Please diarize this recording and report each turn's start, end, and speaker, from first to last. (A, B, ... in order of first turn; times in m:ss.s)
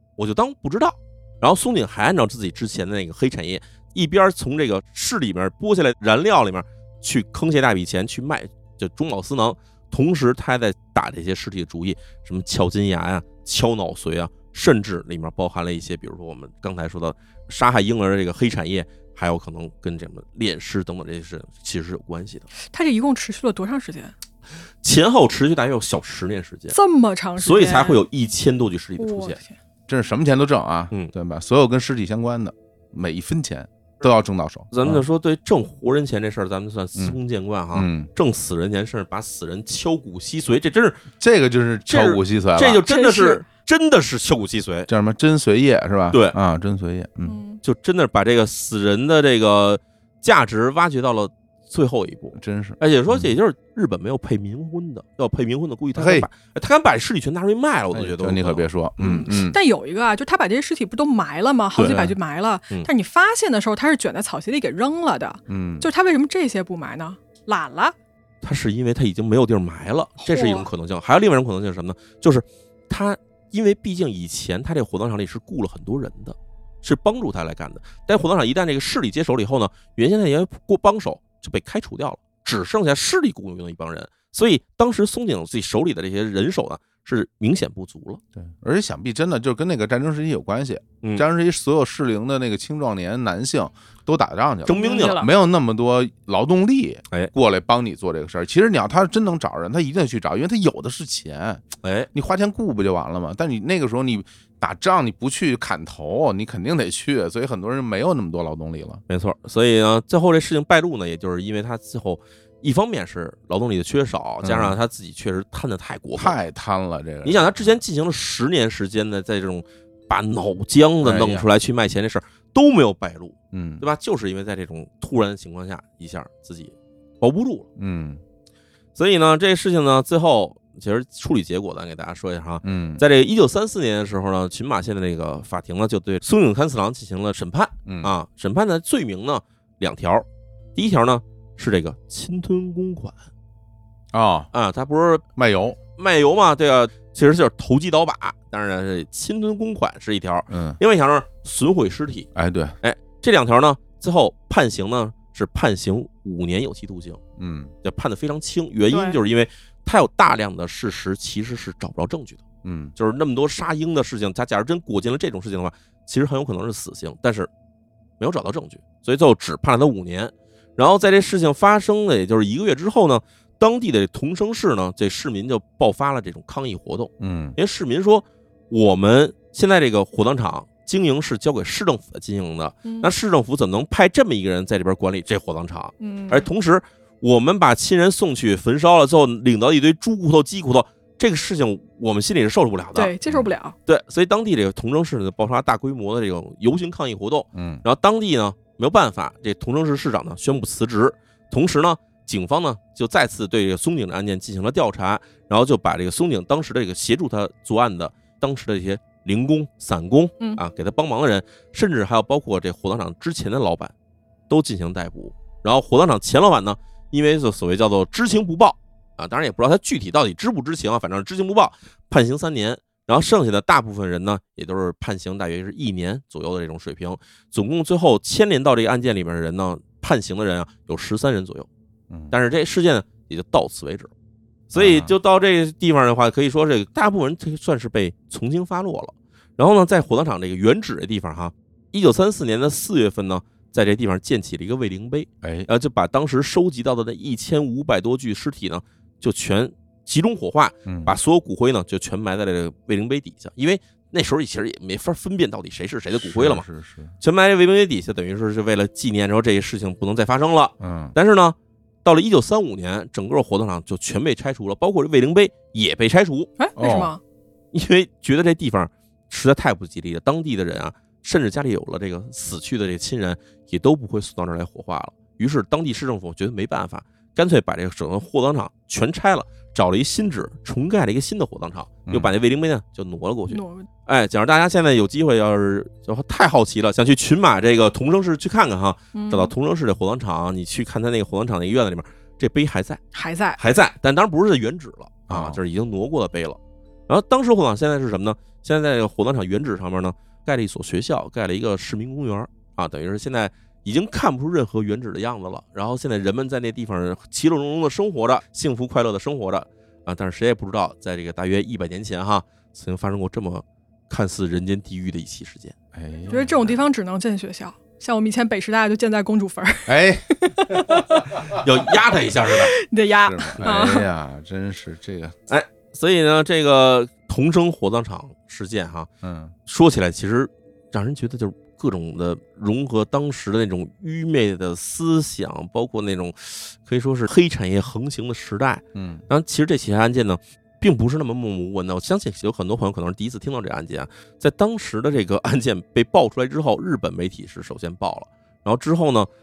0:00.2-0:22.5 A
0:22.6-0:24.2 B
0:24.8-0:26.8 A
0:26.7-0:28.1 B
0:27.4-0:29.4 A
0:29.0-0:29.6 B
0:29.9-0:35.0 C
0:34.7-0:41.0 A
0:37.7-0:38.1 C
0:41.2-0:42.8 C
0:41.9-0:44.9 A
0:42.9-0:43.5 B
0:44.9-0:47.4 C
0:46.1-0:46.4 A
0:47.2-0:47.6 B
0:47.6-0:59.4 A
0:52.4-0:53.4 C
0:56.0-0:56.3 C
0:57.9-0:59.6 C
0:59.4-1:08.0 B
1:01.8-1:02.2 C
1:01.8-1:02.0 A
1:05.5-1:05.9 C
1:08.4-1:28.2 A
1:10.2-1:10.7 B
1:28.4-1:49.0 C
1:34.7-1:35.3 A
1:34.7-1:35.3 B
1:41.8-1:42.1 A
1:49.1-1:56.4 A
1:54.4-1:54.8 C
1:56.2-1:57.7 C
1:57.2-2:07.7 A
2:01.0-2:01.5 C
2:03.5-2:03.9 C
2:07.8-2:08.2 C
2:09.0-2:23.2 A
2:12.6-2:13.0 C
2:17.9-2:18.1 C
2:24.1-2:24.5 C
2:24.5-2:25.2 A
2:25.4-2:25.8 C
2:26.0-2:32.3 A
2:30.5-2:30.8 C
2:32.4-2:32.8 C
2:32.8-2:37.2 A
2:37.4-2:37.7 C
2:37.8-2:42.4 A
2:38.9-2:39.2 B
2:42.6-2:43.0 C
2:43.0-2:47.5 A
2:48.2-3:13.1 A
2:57.2-2:57.6 C
3:02.8-3:03.1 B
3:06.0-3:06.5 B
3:13.0-3:13.8 B
3:13.9-3:33.9 A
3:17.6-3:17.8 C
3:34.5-3:51.7 A
3:52.1-3:52.4 C
3:52.3-3:54.1 A
3:54.7-4:16.6 A
3:54.7-3:55.2 C
4:05.4-4:05.7 C
4:10.9-4:11.2 C
4:16.2-4:17.2 C
4:17.2-4:26.5 A
4:20.8-4:21.2 C
4:26.6-4:27.2 B
4:26.8-4:27.1 C
4:27.7-4:53.0 A
4:43.5-4:43.9 B
4:49.1-4:49.5 B
4:53.1-4:53.6 B
4:53.6-5:15.8 A
4:55.3-4:55.6 C
5:15.9-5:16.8 C
5:16.3-5:21.2 B
5:19.9-5:21.6 C
5:21.5-5:22.7 A
5:22.6-5:24.1 B
5:23.3-5:25.4 C
5:25.5-5:29.1 A
5:29.2-5:29.6 C
5:29.7-5:49.3 A
5:39.0-5:39.2 C